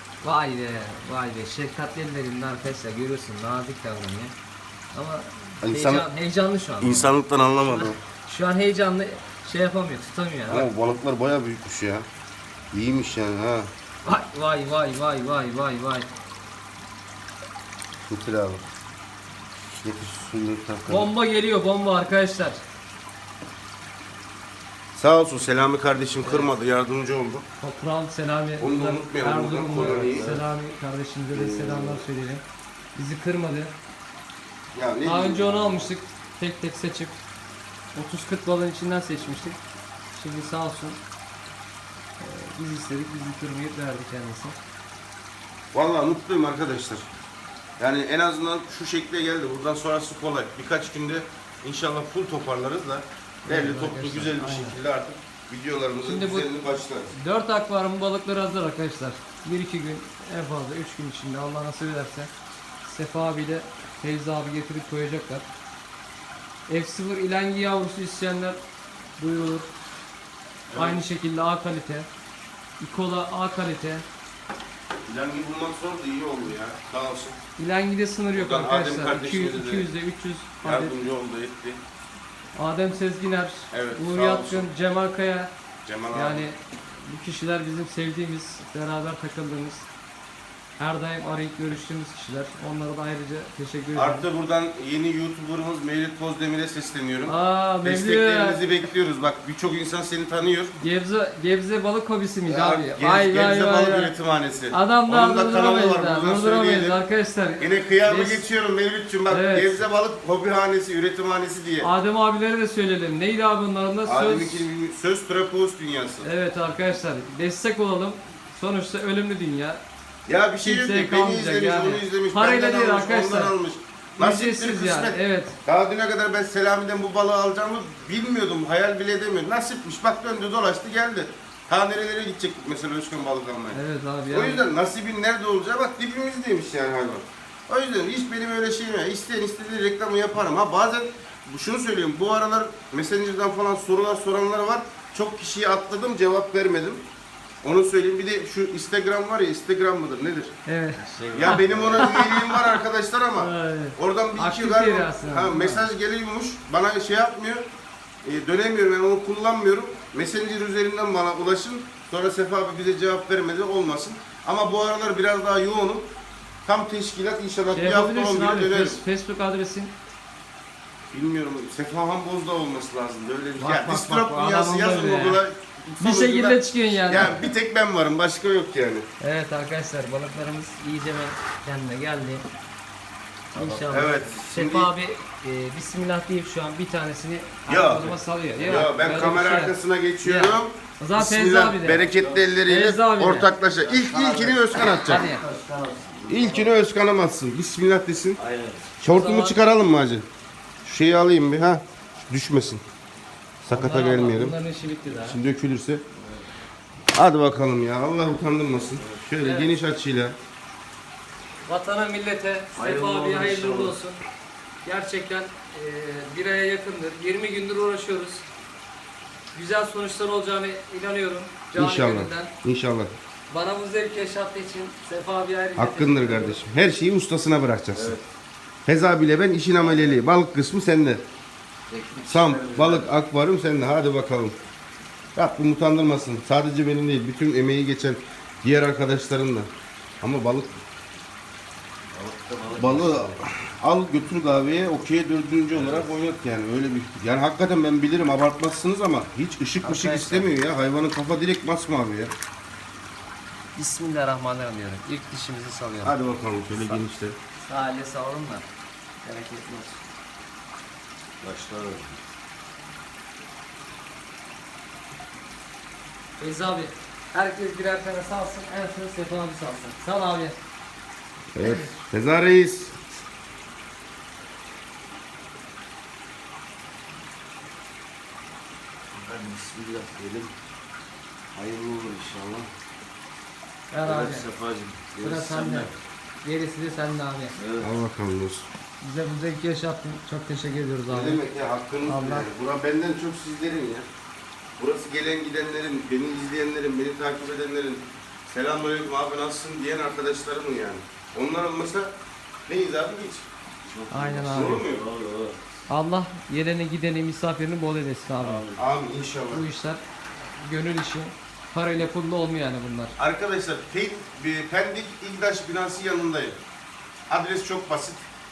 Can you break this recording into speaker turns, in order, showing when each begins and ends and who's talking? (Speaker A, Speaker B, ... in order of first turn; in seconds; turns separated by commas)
Speaker A: 0.2-4.3, Speaker A: 4.9-10.7, Speaker B: 5.6-6.1, Speaker B: 6.8-8.0, Speaker B: 10.5-12.1, Speaker B: 12.7-13.7, Speaker A: 14.1-16.1, Speaker B: 18.1-18.6, Speaker B: 19.7-21.1, Speaker A: 20.9-22.6, Speaker B: 24.9-27.4, Speaker A: 26.2-26.5, Speaker A: 27.6-32.4, Speaker B: 28.6-30.3, Speaker C: 29.7-30.4, Speaker B: 31.3-32.1, Speaker A: 33.0-33.7, Speaker B: 34.7-35.9, Speaker A: 35.0-37.2, Speaker A: 37.9-39.6, Speaker A: 40.1-41.0, Speaker A: 42.2-44.6, Speaker B: 45.7-47.1, Speaker B: 47.8-57.1, Speaker A: 53.5-54.8, Speaker A: 56.0-56.5, Speaker A: 57.1-62.3, Speaker A: 62.8-65.5, Speaker A: 66.7-68.6, Speaker A: 69.2-69.7, Speaker B: 70.7-71.0, Speaker A: 70.7-72.1, Speaker A: 72.8-74.1, Speaker B: 75.1-77.4, Speaker A: 77.6-81.0, Speaker B: 78.3-79.9, Speaker B: 80.6-81.8, Speaker A: 82.5-85.5, Speaker B: 83.7-84.7, Speaker B: 85.9-86.5, Speaker A: 86.1-89.9, Speaker A: 90.8-94.2, Speaker B: 93.9-100.8, Speaker A: 97.3-98.6, Speaker A: 100.8-104.1, Speaker B: 102.5-107.0, Speaker A: 104.7-108.4, Speaker B: 107.6-111.9, Speaker A: 109.3-109.8, Speaker A: 111.8-114.7, Speaker B: 114.0-116.3, Speaker A: 116.2-119.8, Speaker B: 120.3-133.8, Speaker A: 120.6-123.5, Speaker A: 124.2-125.6, Speaker A: 133.7-134.6, Speaker B: 134.3-147.0, Speaker B: 147.6-150.6, Speaker A: 150.7-152.7, Speaker C: 151.0-152.2, Speaker B: 151.3-157.6, Speaker A: 153.4-155.9, Speaker B: 158.2-166.1, Speaker B: 166.7-169.0, Speaker A: 167.7-169.9, Speaker B: 171.1-179.1, Speaker A: 173.6-175.4, Speaker A: 176.0-177.5, Speaker A: 179.2-182.4, Speaker A: 183.5-192.1, Speaker B: 183.6-184.9, Speaker B: 187.7-195.2, Speaker C: 192.0-192.5, Speaker A: 192.7-193.5, Speaker C: 193.8-196.7, Speaker A: 194.9-195.4, Speaker B: 196.3-198.4, Speaker C: 198.4-198.9, Speaker B: 199.0-200.3, Speaker A: 199.1-199.6, Speaker B: 200.8-202.8, Speaker A: 203.6-205.4, Speaker B: 203.7-204.6, Speaker B: 205.2-206.0, Speaker C: 206.2-206.5, Speaker B: 207.1-210.3, Speaker C: 208.9-209.2, Speaker A: 209.4-209.8, Speaker A: 211.7-214.2, Speaker C: 212.8-214.0, Speaker A: 214.8-218.4, Speaker A: 219.5-222.5, Speaker B: 221.8-223.1, Speaker A: 223.5-226.6, Speaker B: 225.8-228.2, Speaker C: 227.9-228.2, Speaker B: 228.9-231.2, Speaker C: 231.9-233.1, Speaker B: 232.3-234.6, Speaker B: 235.3-239.7, Speaker B: 240.2-240.7, Speaker C: 242.1-243.4, Speaker B: 242.8-252.3, Speaker C: 245.7-246.2, Speaker A: 249.8-250.5, Speaker A: 253.8-256.2, Speaker B: 256.0-257.4, Speaker A: 256.7-257.0, Speaker A: 257.6-258.7, Speaker A: 259.2-260.0, Speaker C: 261.4-262.2, Speaker A: 266.4-270.6, Speaker B: 271.5-273.0, Speaker A: 271.6-271.9, Speaker C: 279.1-280.5, Speaker C: 281.5-282.7, Speaker A: 283.9-284.5, Speaker C: 284.0-286.0, Speaker A: 285.2-285.9, Speaker A: 286.4-287.6, Speaker C: 287.6-288.0, Speaker B: 287.8-288.7, Speaker A: 289.0-291.4, Speaker B: 291.1-294.1, Speaker A: 292.1-292.5, Speaker B: 294.8-302.1, Speaker B: 302.7-303.5, Speaker C: 303.8-305.6, Speaker A: 304.1-304.8, Speaker B: 304.5-305.1, Speaker A: 305.9-308.6, Speaker C: 308.4-308.9, Speaker B: 308.8-309.6, Speaker A: 309.5-313.2, Speaker B: 313.2-316.6, Speaker B: 317.3-318.3